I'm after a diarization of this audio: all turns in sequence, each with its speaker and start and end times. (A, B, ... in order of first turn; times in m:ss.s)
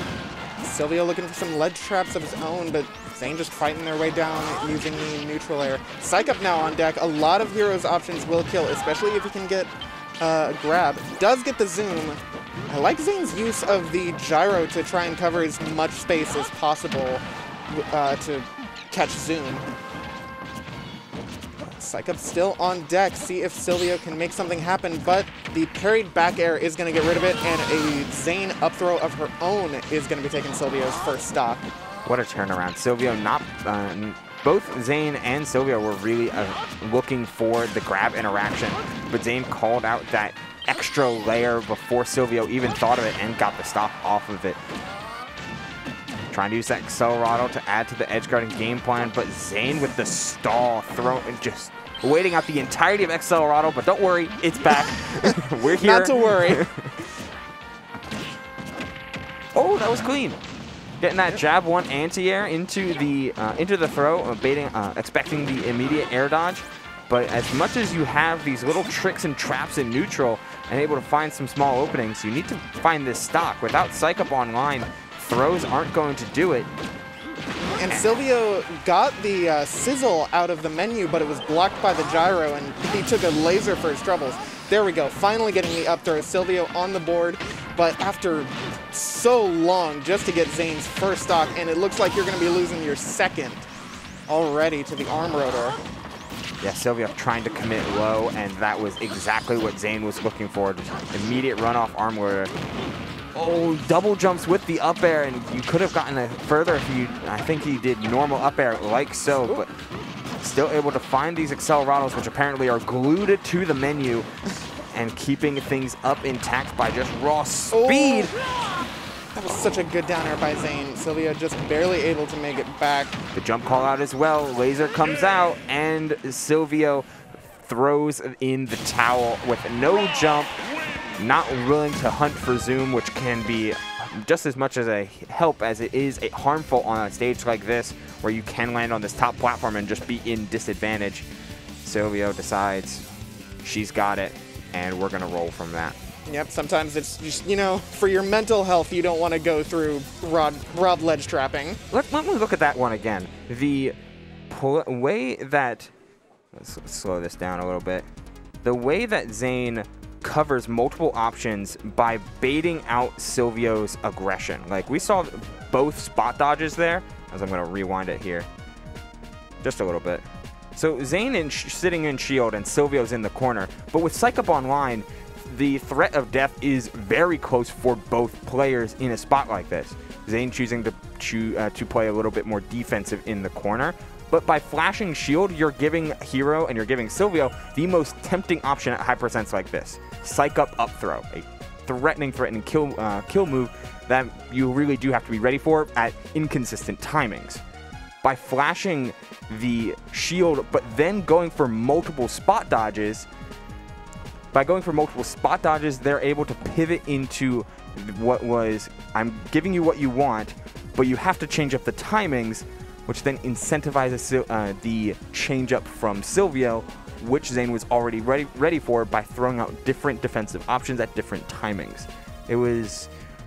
0:00.6-0:19.7 A
0:21.8-0:31.6 A
0:32.0-0:44.6 B
0:46.3-0:56.9 B
0:55.2-0:56.7 A
0:59.6-1:00.4 B
1:01.0-1:16.7 B
1:17.6-1:33.7 A
1:34.3-1:35.8 A
1:36.6-1:42.5 B
1:43.4-1:49.7 B
1:50.4-1:54.3 B
1:54.9-1:58.4 B
1:57.7-1:58.4 A
1:59.4-2:03.2 A
2:03.4-2:07.1 B
2:07.6-2:10.6 B
2:11.2-2:21.3 B
2:21.8-2:23.1 B
2:23.6-2:26.0 B
2:26.3-2:31.8 A
2:31.9-2:34.0 B
2:34.5-2:35.9 B
2:36.5-2:38.1 B
2:38.6-2:48.5 B
2:49.6-2:50.2 B
2:50.8-3:17.6 B
3:18.2-3:23.3 B
3:24.5-3:43.1 B